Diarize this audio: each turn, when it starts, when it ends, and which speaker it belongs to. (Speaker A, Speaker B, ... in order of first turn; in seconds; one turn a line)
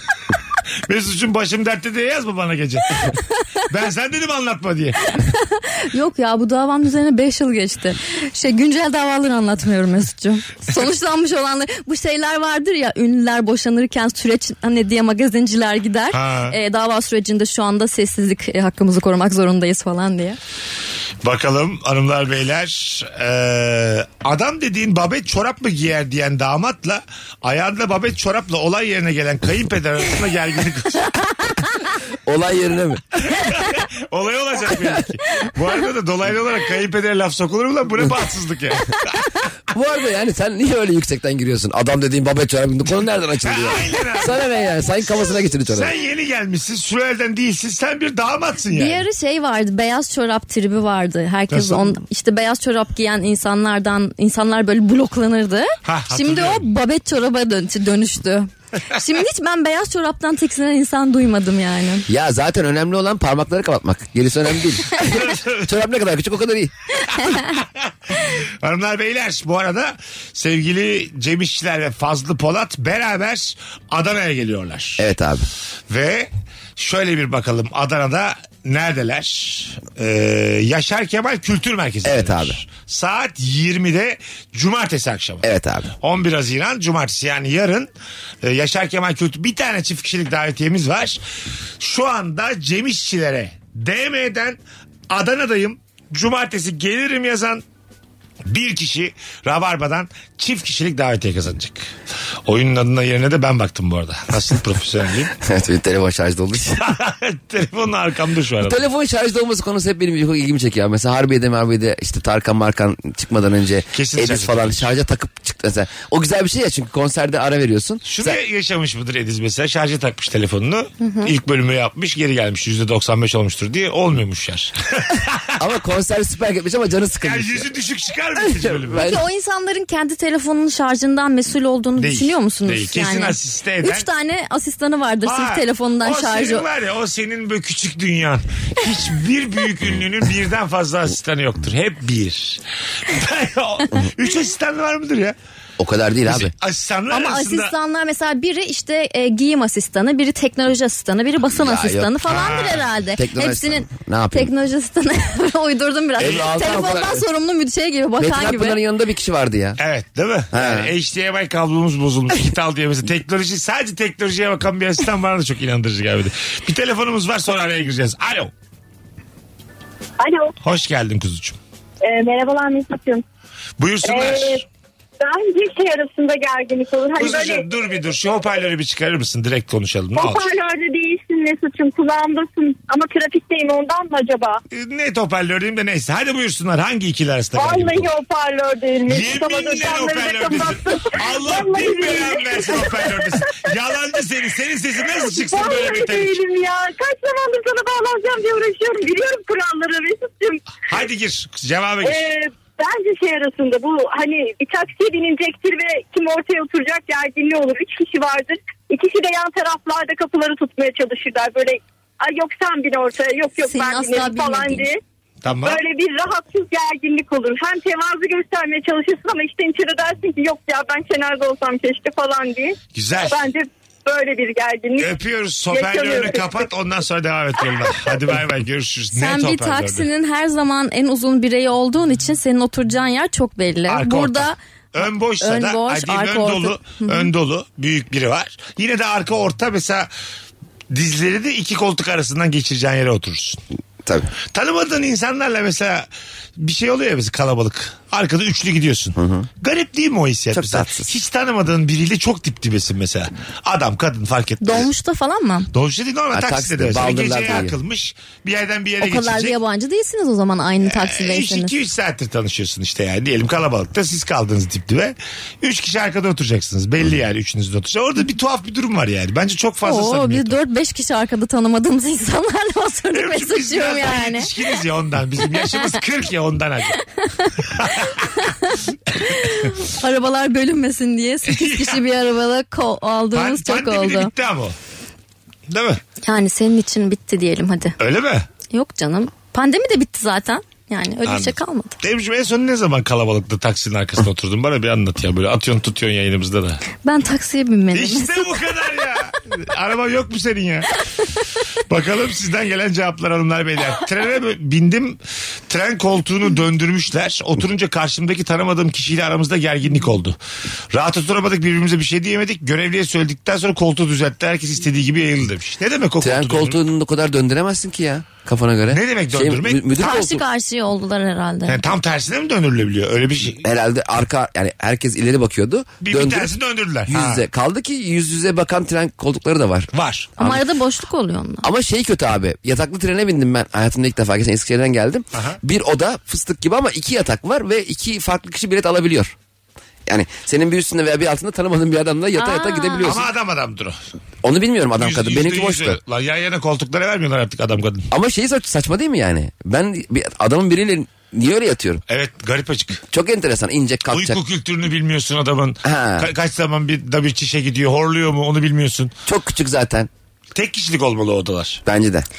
Speaker A: 0.9-3.1
Speaker A: 3.7-5.0
Speaker B: 5.1-20.4
Speaker A: 16.1-16.6
Speaker A: 21.2-31.1
Speaker C: 32.3-33.2
Speaker A: 33.2-39.2
Speaker C: 39.7-45.9
Speaker A: 43.4-44.4
Speaker A: 45.7-49.0
Speaker B: 48.7-62.1
Speaker A: 51.5-51.9
Speaker A: 55.9-56.7
Speaker C: 62.1-66.7
Speaker A: 65.0-65.7
Speaker A: 67.6-75.1
Speaker C: 75.0-75.5
Speaker A: 75.9-85.4
Speaker C: 82.0-82.6
Speaker C: 85.4-85.9
Speaker A: 86.0-87.9
Speaker A: 88.4-91.2
Speaker A: 91.8-94.6
Speaker A: 95.1-97.6
Speaker A: 98.5-101.9
Speaker A: 102.5-105.3
Speaker C: 105.4-106.8
Speaker A: 106.8-108.8
Speaker C: 108.6-118.4
Speaker A: 113.9-114.9
Speaker A: 118.1-125.6
Speaker B: 121.0-121.3
Speaker C: 125.6-127.7
Speaker A: 127.2-129.1
Speaker C: 128.5-129.2
Speaker B: 129.0-136.7
Speaker A: 132.0-134.1
Speaker A: 135.2-145.4
Speaker C: 145.8-146.5
Speaker A: 146.3-147.7
Speaker B: 147.1-158.8
Speaker C: 151.5-152.2
Speaker A: 152.3-152.9
Speaker C: 153.2-154.5
Speaker C: 156.2-157.2
Speaker C: 158.2-159.8
Speaker A: 159.8-168.5
Speaker C: 160.5-160.9
Speaker D: 170.2-170.5
Speaker A: 170.6-171.6
Speaker D: 172.0-173.2
Speaker A: 173.8-174.7
Speaker D: 174.1-174.6
Speaker D: 175.2-177.7
Speaker A: 177.2-180.4
Speaker D: 180.2-184.6
Speaker A: 184.7-188.1
Speaker D: 187.6-193.3
Speaker A: 189.1-196.4
Speaker D: 195.3-200.6
Speaker A: 200.9-202.3
Speaker D: 202.0-215.0
Speaker B: 213.7-214.9
Speaker A: 215.4-215.8
Speaker D: 215.7-225.1
Speaker A: 222.9-223.4
Speaker A: 225.0-230.1
Speaker D: 225.7-226.5
Speaker B: 229.1-234.6
Speaker A: 233.9-240.1
Speaker B: 235.4-237.3
Speaker A: 240.9-243.6
Speaker A: 244.5-246.1
Speaker A: 246.6-254.9
Speaker C: 249.2-249.5
Speaker C: 250.5-251.1
Speaker B: 254.6-255.7
Speaker A: 255.7-259.6
Speaker C: 256.3-257.8
Speaker B: 259.0-261.7
Speaker A: 260.8-270.6
Speaker B: 269.8-274.5
Speaker A: 273.1-277.0
Speaker B: 277.2-284.3
Speaker A: 277.6-278.3
Speaker A: 281.5-282.0
Speaker A: 283.3-284.8
Speaker A: 285.7-286.0
Speaker B: 286.2-288.0
Speaker A: 288.0-288.5
Speaker B: 288.7-291.9
Speaker A: 291.2-296.8
Speaker B: 297.0-298.5
Speaker A: 297.9-301.0
Speaker A: 301.9-310.4
Speaker A: 310.9-316.8
Speaker C: 316.2-320.4
Speaker A: 318.9-320.0
Speaker B: 320.0-321.8
Speaker A: 321.7-323.6
Speaker C: 323.6-326.5
Speaker A: 326.0-327.4
Speaker C: 327.1-330.6
Speaker A: 329.9-330.3
Speaker B: 330.4-331.7
Speaker C: 331.6-339.3
Speaker C: 340.1-343.3
Speaker B: 342.4-343.1
Speaker A: 343.0-344.0
Speaker C: 344.4-346.0
Speaker A: 345.0-348.1
Speaker C: 348.1-352.0
Speaker A: 352.1-353.0
Speaker C: 353.1-354.4
Speaker A: 354.1-359.1
Speaker C: 355.8-356.3
Speaker C: 359.3-360.1
Speaker A: 360.6-361.8
Speaker C: 361.9-362.3